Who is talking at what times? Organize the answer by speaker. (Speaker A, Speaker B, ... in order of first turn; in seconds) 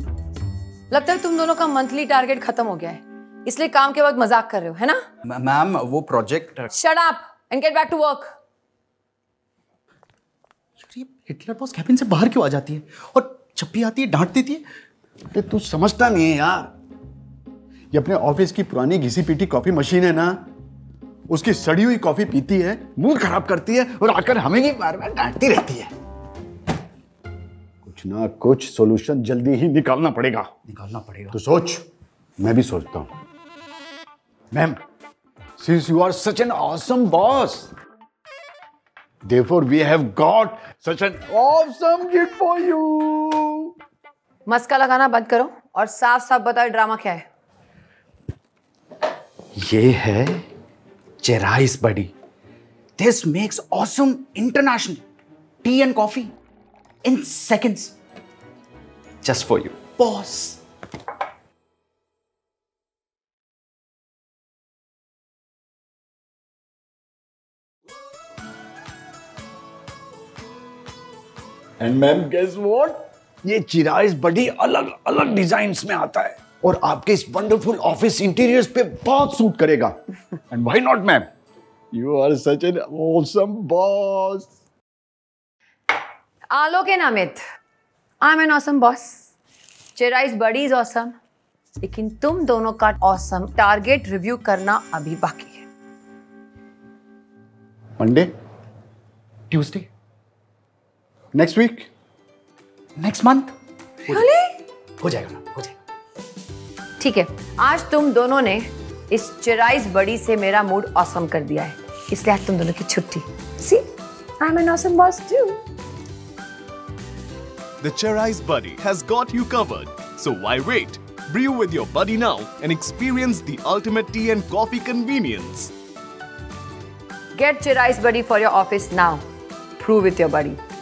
Speaker A: 0.9-5.0, 6.7-8.3, 44.5-47.2, 86.5-87.4, 88.2-89.2, 90.0-91.1, 91.8-95.6, 104.1-104.5, 107.0-113.9, 114.4-115.6, 127.4-129.2, 129.8-130.6
Speaker B: 5.3-6.7, 10.8-14.7, 30.7-31.3, 49.5-50.5, 51.2-52.1, 53.0-55.0, 55.6-56.3, 57.0-58.0, 59.2-60.6, 99.5-99.9, 103.0-103.5, 105.0-105.8
Speaker C: 15.3-16.7, 17.9-20.4, 21.3-25.9, 27.8-30.5, 31.3-31.8, 32.4-33.1, 34.5-34.8, 35.6-37.7, 39.2-43.7, 71.8-80.0, 80.5-81.3, 81.9-84.5, 98.0-98.3, 101.3-101.9
Speaker D: 117.8-125.7